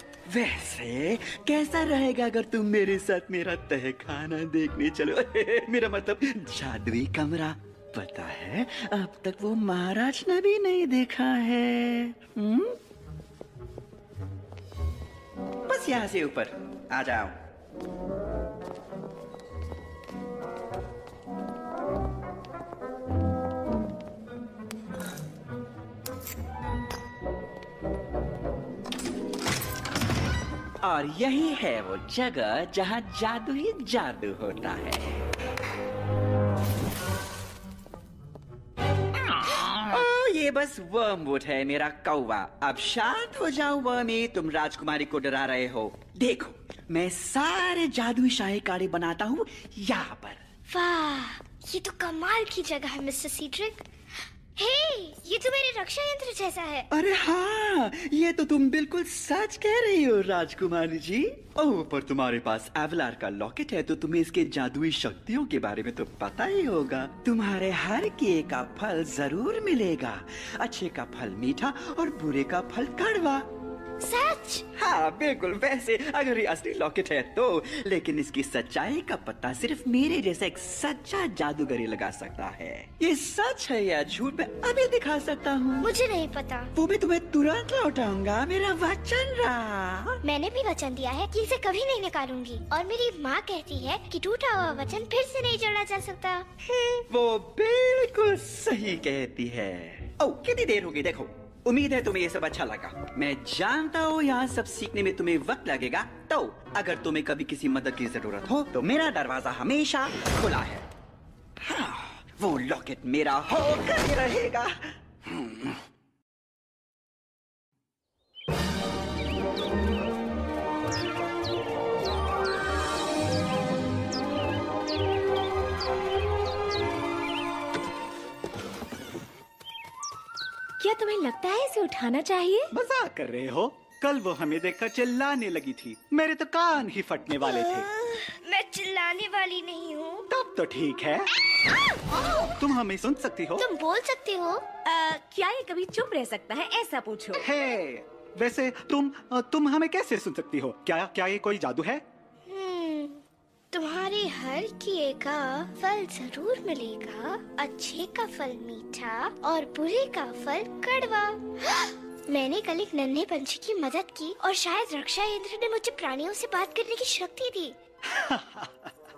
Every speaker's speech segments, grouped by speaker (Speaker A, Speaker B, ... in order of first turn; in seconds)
Speaker A: 0.3-12.8, 15.7-17.4, 30.8-35.2, 39.5-50.4, 56.9-73.5, 74.7-85.9, 86.7-90.2, 96.7-110.9, 111.6-115.7
Speaker B: 50.7-53.9, 54.5-56.9, 74.0-74.6, 85.8-86.7, 90.2-96.5, 137.4-140.3, 143.6-144.6, 152.5-167.8
Speaker C: 130.8-132.7, 144.8-147.4
Speaker D: 132.7-137.9, 140.3-141.3, 142.6-143.6, 147.4-152.0, 168.1-168.9